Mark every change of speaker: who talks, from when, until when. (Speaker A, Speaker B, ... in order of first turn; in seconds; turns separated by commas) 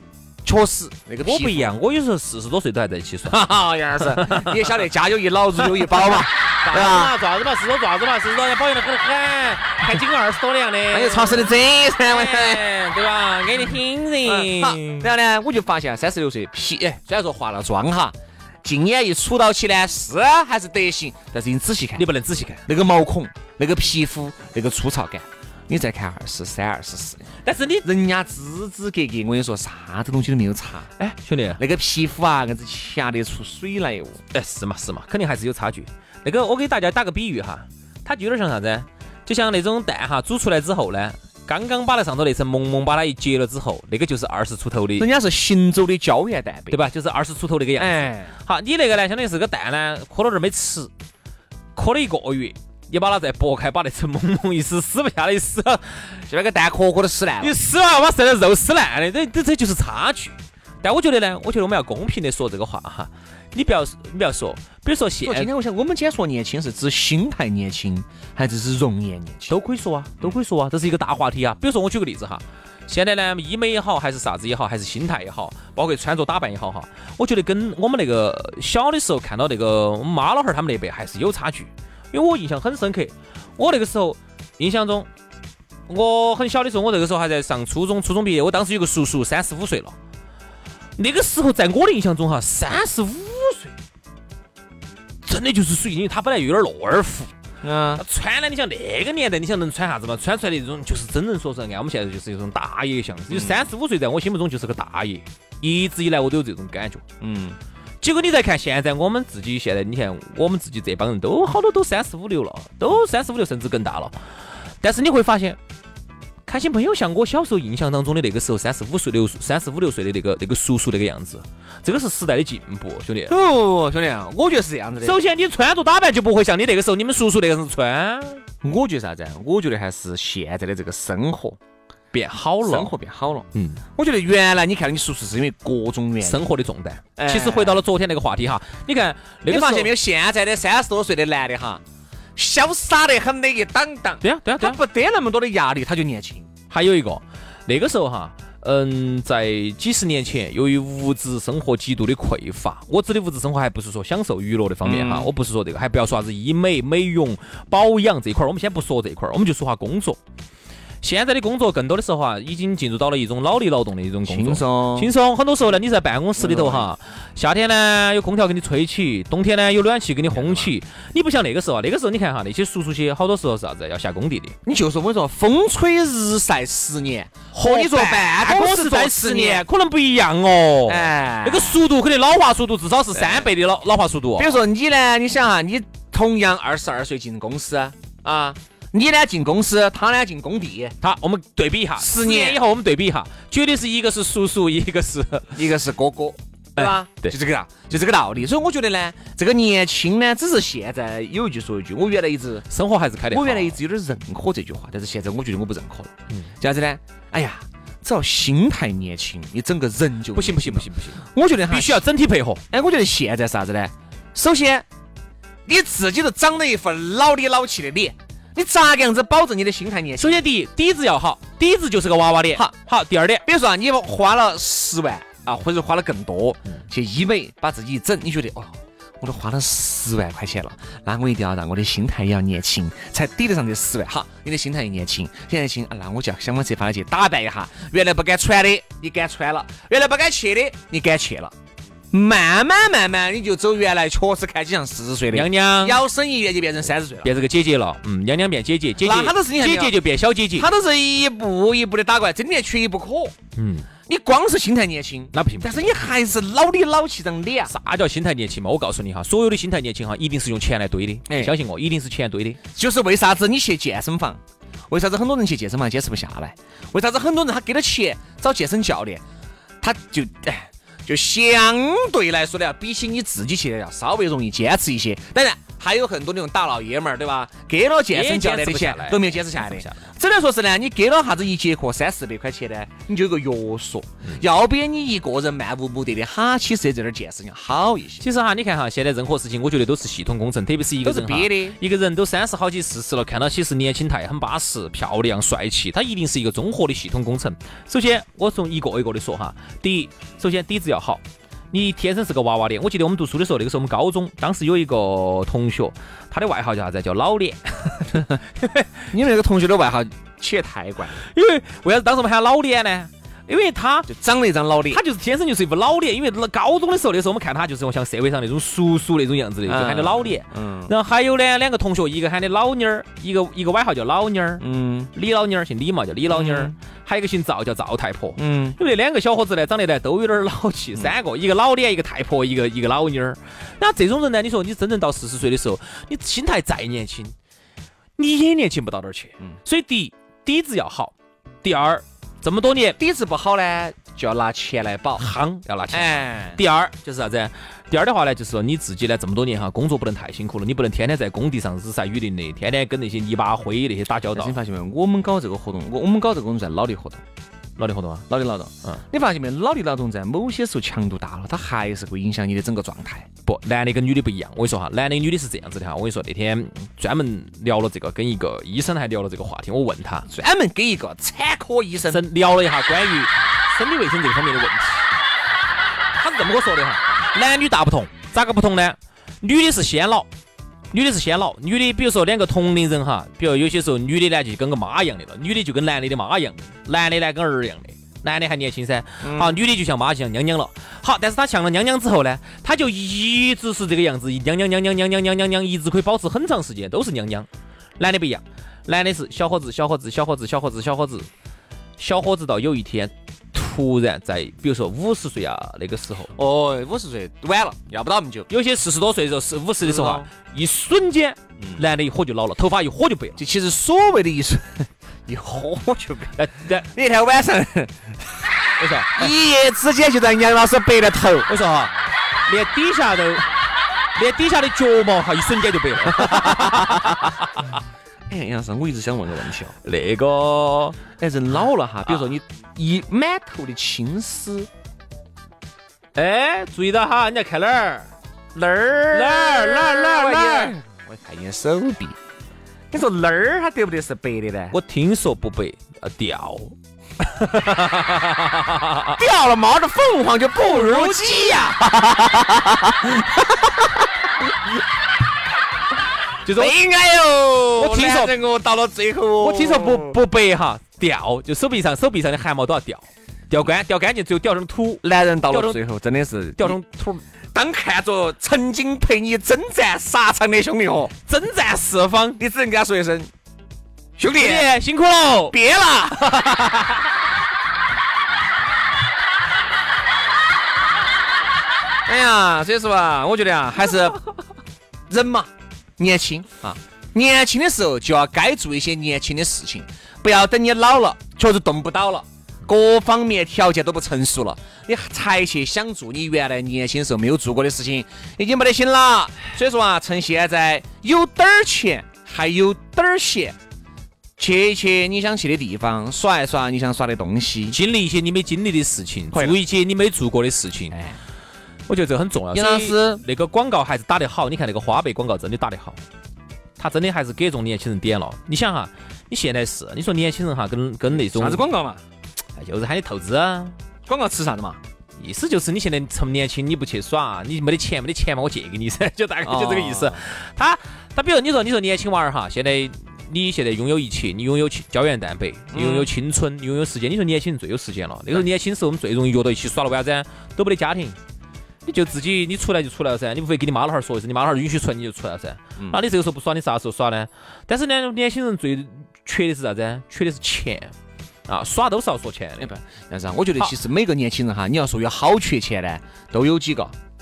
Speaker A: 0.4-1.7, Speaker B: 1.2-3.4, Speaker A: 3.3-7.1, Speaker B: 4.0-4.5, Speaker B: 5.8-15.1, Speaker A: 10.9-12.6, Speaker A: 14.2-22.1, Speaker B: 21.9-22.6, Speaker A: 22.6-27.3, Speaker B: 27.4-27.9, Speaker A: 27.8-30.9, Speaker B: 31.0-31.6, Speaker A: 31.6-34.2, Speaker B: 34.3-45.1, Speaker A: 45.0-46.8, Speaker B: 46.7-50.9, Speaker A: 47.8-48.3, Speaker B: 51.7-56.1, Speaker A: 56.2-57.5, Speaker B: 57.4-65.5, Speaker A: 65.2-69.5, Speaker B: 69.5-85.1, Speaker B: 85.9-89.9, Speaker B: 91.0-93.7, Speaker B: 95.2-97.3, Speaker A: 97.6-98.0, Speaker B: 98.0-107.0, Speaker A: 103.3-103.6, Speaker A: 107.2-107.6, Speaker B: 108.0-114.2, Speaker B: 114.8-115.6, Speaker B: 116.5-123.3, Speaker A: 123.3-125.2, Speaker B: 125.0-128.4, Speaker A: 128.6-131.6, Speaker B: 132.1-132.9, Speaker A: 132.6-136.4, Speaker B: 133.5-133.8, Speaker B: 136.2-139.9, Speaker A: 137.2-137.8, Speaker A: 139.5-141.8, Speaker A: 142.3-146.5, Speaker B: 144.2-144.8, Speaker B: 146.7-160.2, Speaker A: 154.8-155.3, Speaker B: 161.0-174.6, Speaker A: 164.2-165.1, Speaker A: 166.4-166.9, Speaker A: 170.3-170.7, Speaker A: 174.6-179.6, Speaker B: 177.5-184.6, Speaker A: 180.9-181.8, Speaker A: 183.1-183.5, Speaker A: 184.3-190.9, Speaker B: 191.0-195.6, Speaker A: 192.0-192.6, Speaker A: 195.5-202.6, Speaker B: 196.8-197.3, Speaker B: 202.7-203.8, Speaker A: 203.3-212.1, Speaker B: 210.3-212.6, Speaker A: 212.7-214.8, Speaker A: 215.7-220.4, Speaker B: 220.2-223.4, Speaker A: 223.4-241.5, Speaker A: 242.1-247.3, Speaker B: 245.3-246.0, Speaker B: 247.2-250.7, Speaker A: 249.0-250.0, Speaker A: 250.5-253.3, Speaker B: 253.6-253.9, Speaker A: 254.1-257.7, Speaker B: 255.3-255.9, Speaker B: 257.7-262.6, Speaker A: 261.3-261.5, Speaker A: 262.7-269.2, Speaker A: 269.8-288.2, Speaker B: 278.1-280.1, Speaker B: 288.2-308.9, Speaker A: 291.0-291.8, Speaker A: 309.1-311.2, Speaker B: 311.2-314.1, Speaker A: 314.1-315.0, Speaker B: 314.9-337.3, Speaker A: 319.6-320.9, Speaker A: 324.6-325.1, Speaker A: 326.3-326.7, Speaker A: 328.4-328.8, Speaker B: 338.2-343.0, Speaker A: 343.0-345.3, Speaker B: 345.2-354.6, Speaker A: 345.9-346.6, Speaker A: 354.3-357.2, Speaker B: 357.8-358.3, Speaker A: 358.3-363.3, Speaker B: 363.4-370.3, Speaker A: 370.3-372.2, Speaker B: 372.1-375.1, Speaker B: 376.1-380.3, Speaker B: 380.9-397.5, Speaker A: 389.2-389.6, Speaker B: 398.0-401.3, Speaker B: 402.0-406.3, Speaker A: 406.3-408.5, Speaker B: 408.5-413.4, Speaker A: 409.8-410.3, Speaker A: 413.4-418.4, Speaker B: 416.4-416.9, Speaker B: 418.8-419.3, Speaker A: 419.1-421.5, Speaker B: 421.5-421.9, Speaker B: 422.5-423.5, Speaker B: 424.1-427.6, Speaker A: 426.2-427.1, Speaker A: 428.3-429.7, Speaker B: 429.8-431.0, Speaker A: 431.2-434.7, Speaker B: 436.1-438.1, Speaker A: 438.5-442.2, Speaker B: 439.1-440.7, Speaker A: 442.9-444.8, Speaker B: 444.7-449.2, Speaker A: 449.1-454.3, Speaker B: 450.6-451.7, Speaker B: 456.4-456.7, Speaker A: 456.5-460.2, Speaker B: 457.8-458.3, Speaker B: 459.4-465.8, Speaker A: 465.0-466.8, Speaker B: 466.6-467.2, Speaker A: 467.5-471.1, Speaker B: 471.3-472.4, Speaker A: 472.4-473.3, Speaker A: 474.2-474.7, Speaker B: 474.4-475.6, Speaker A: 475.5-476.5, Speaker B: 476.3-477.0, Speaker A: 482.1-484.2, Speaker A: 485.1-503.6, Speaker A: 504.4-507.8, Speaker B: 507.7-511.0, Speaker A: 509.3-509.6, Speaker A: 510.9-511.2, Speaker B: 511.9-516.0, Speaker A: 512.5-513.2, Speaker B: 516.8-521.6, Speaker A: 521.1-522.0, Speaker B: 522.6-523.8, Speaker A: 524.0-524.8, Speaker B: 525.2-541.2, Speaker A: 529.4-530.2, Speaker A: 535.7-536.1, Speaker B: 541.8-550.9, Speaker B: 551.5-552.7, Speaker A: 552.6-556.9